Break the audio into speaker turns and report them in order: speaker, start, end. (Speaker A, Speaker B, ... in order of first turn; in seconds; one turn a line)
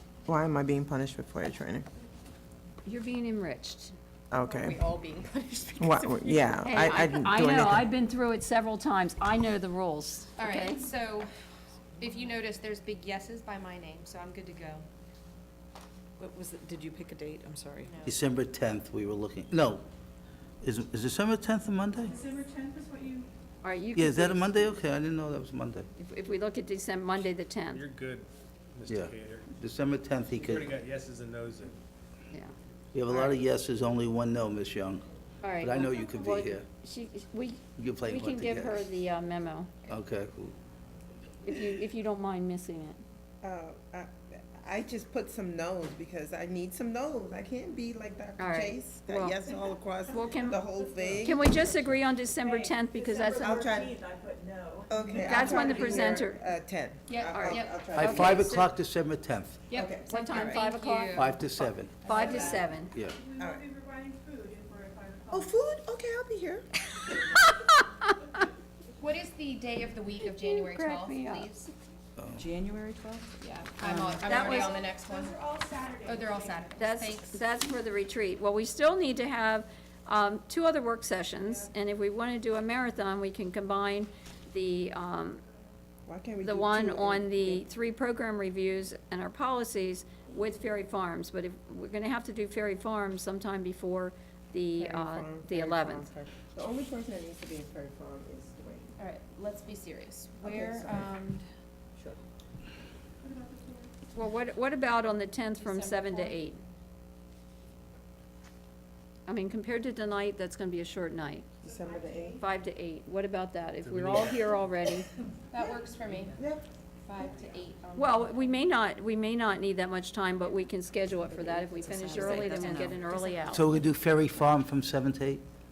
Speaker A: 0.3-1.9
Speaker B: 2.8-3.9
Speaker A: 4.3-4.8
Speaker C: 4.4-6.9
Speaker A: 5.8-7.9
Speaker B: 6.6-10.8
Speaker C: 10.3-11.3
Speaker C: 12.0-14.8
Speaker D: 16.2-17.9
Speaker C: 17.8-18.2
Speaker E: 18.0-19.8
Speaker E: 20.6-22.2
Speaker F: 22.1-23.3
Speaker B: 23.6-24.7
Speaker E: 23.9-25.9
Speaker B: 26.0-27.9
Speaker G: 27.7-29.5
Speaker E: 28.9-30.8
Speaker G: 30.4-31.8
Speaker E: 32.9-36.6
Speaker B: 35.4-39.9
Speaker E: 37.8-38.9
Speaker E: 39.9-40.5
Speaker B: 41.4-43.0
Speaker A: 43.4-51.5
Speaker B: 48.4-49.4
Speaker B: 50.1-50.6
Speaker G: 51.1-51.3
Speaker B: 51.2-53.7
Speaker F: 52.4-56.0
Speaker A: 53.3-54.0
Speaker A: 54.9-58.4
Speaker B: 55.2-56.4
Speaker C: 57.1-58.0
Speaker B: 57.3-58.7
Speaker E: 57.9-59.6
Speaker C: 59.7-61.4
Speaker A: 59.7-60.6
Speaker B: 60.0-62.9
Speaker E: 61.1-62.2
Speaker C: 62.0-62.8
Speaker E: 62.8-63.2
Speaker F: 63.1-65.5
Speaker A: 63.4-63.6
Speaker A: 65.3-66.7
Speaker C: 69.0-71.7
Speaker B: 70.3-71.5
Speaker E: 72.2-72.5
Speaker D: 72.4-74.4
Speaker C: 73.4-75.4
Speaker B: 74.2-74.7
Speaker F: 74.7-76.7
Speaker C: 76.0-77.4
Speaker B: 76.8-85.4
Speaker A: 86.0-87.6
Speaker B: 86.4-96.1
Speaker A: 94.8-98.9
Speaker C: 99.0-101.4
Speaker A: 100.4-101.1
Speaker F: 103.2-103.9
Speaker B: 104.1-106.6
Speaker C: 105.5-106.4
Speaker B: 109.3-111.4
Speaker A: 111.6-112.4
Speaker F: 111.7-112.4
Speaker B: 112.4-115.1
Speaker G: 113.8-114.4
Speaker C: 115.5-116.4
Speaker A: 116.3-116.6
Speaker C: 117.0-118.3
Speaker B: 118.0-123.7
Speaker A: 121.3-121.8
Speaker D: 121.9-123.3
Speaker C: 122.0-123.8
Speaker E: 123.5-125.4